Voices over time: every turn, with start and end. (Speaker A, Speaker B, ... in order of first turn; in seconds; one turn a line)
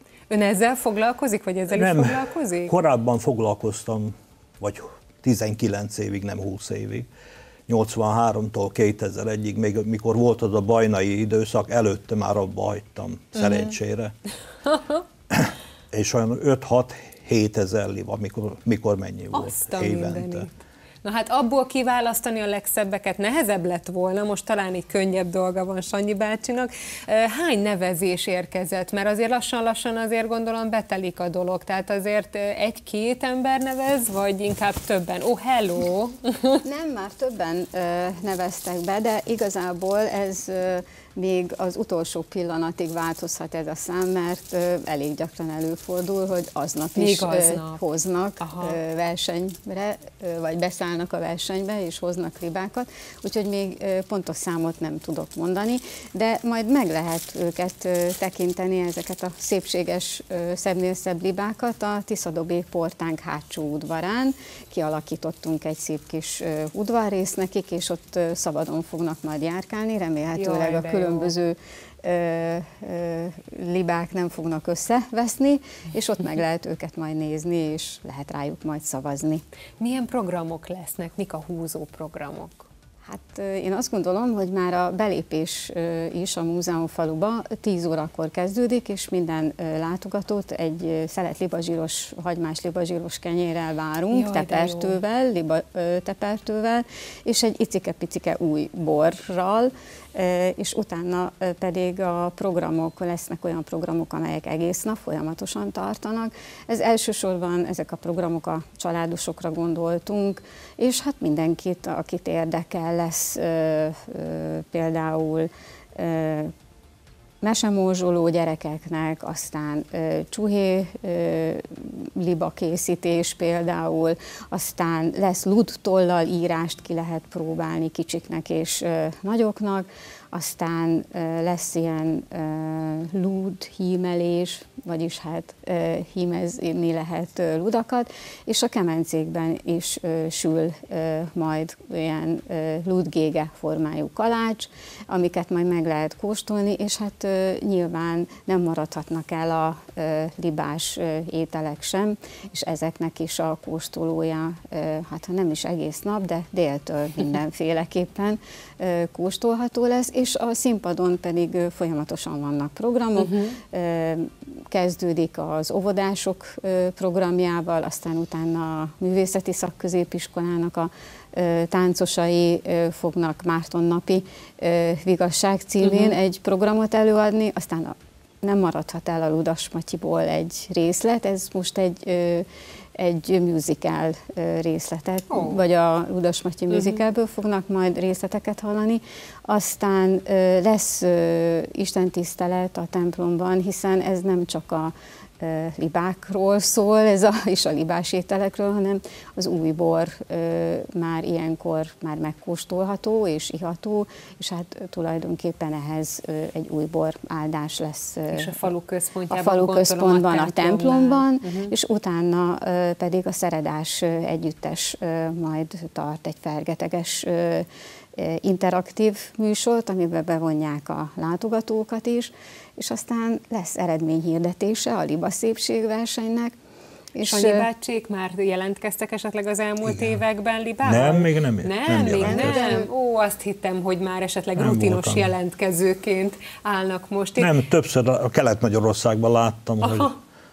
Speaker A: 0.3-2.7
Speaker B: 1.7-7.1
Speaker B: 7.7-14.1
Speaker A: 13.4-13.7
Speaker B: 15.3-20.5
Speaker A: 19.3-20.5
Speaker A: 21.0-36.6
Speaker C: 36.6-79.4
Speaker A: 47.0-47.8
Speaker A: 48.4-48.8
Speaker A: 70.3-71.3
Speaker A: 79.8-82.7
Speaker C: 83.1-116.5
Speaker A: 94.1-95.0
Speaker C: 117.4-208.7
Speaker A: 163.2-163.6
Speaker A: 175.8-176.1
Speaker A: 185.3-185.6
Speaker A: 186.7-187.0
Speaker A: 208.3-211.7
Speaker C: 209.3-226.6
Speaker C: 227.1-227.7
Speaker A: 227.2-237.6
Speaker B: 229.8-230.2
Speaker B: 230.8-232.8
Speaker C: 232.2-232.9
Speaker B: 234.6-235.3
Speaker B: 237.4-240.2
Speaker A: 239.8-240.1